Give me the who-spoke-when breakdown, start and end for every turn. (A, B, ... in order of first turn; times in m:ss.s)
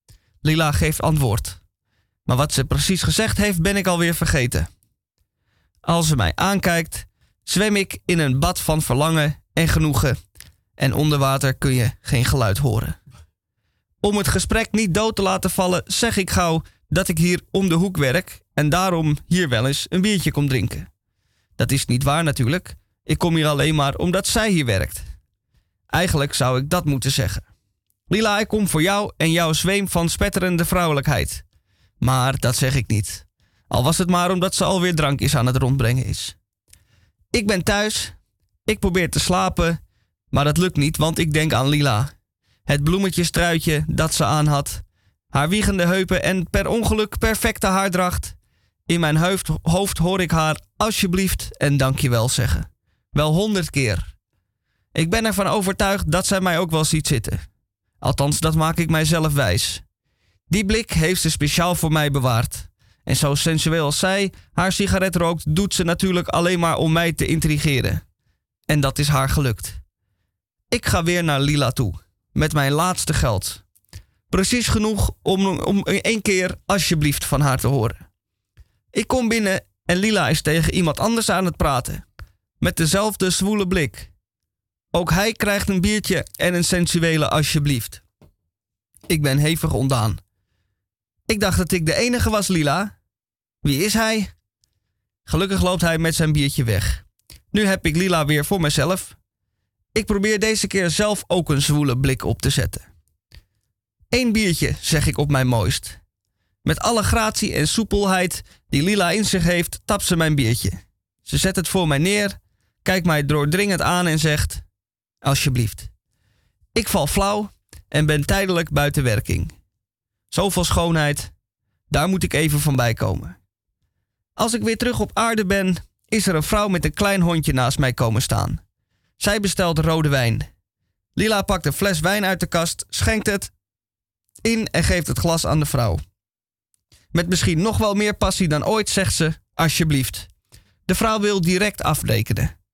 0:00.4-0:01.6 A
0:02.3-0:04.7 A
0:05.8-0:10.2 A
0:10.8-0:13.0 A
0:14.0-0:20.9 A
0:21.6-0:25.1 A
0:25.9-0:27.4 A
0:28.1-0:31.4 A
0:32.0-0:36.4 A
0:37.3-0:39.8 A
0:40.3-0:42.1 A
0:42.6-0:54.2 A
0:54.9-0:59.8 A
1:00.5-1:08.0 A
1:08.7-1:09.8 A
1:10.7-1:13.6 A
1:14.3-1:18.0 A
1:18.9-1:22.0 A
1:22.6-1:24.1 A
1:24.9-1:28.0 A
1:29.1-1:30.2 A
1:31.3-1:33.0 A
1:33.6-1:34.3 A
1:35.3-1:39.2 A
1:39.9-1:42.9 A
1:44.1-1:46.0 A
1:46.6-1:54.6 A
1:55.2-1:55.9 A
1:56.7-1:59.6 A
2:00.3-2:01.3 A
2:01.9-2:03.4 A
2:04.4-2:08.6 A
2:09.2-2:10.5 A
2:11.2-2:13.5 A
2:14.4-2:16.0 A
2:17.1-2:20.3 A
2:20.9-2:22.5 A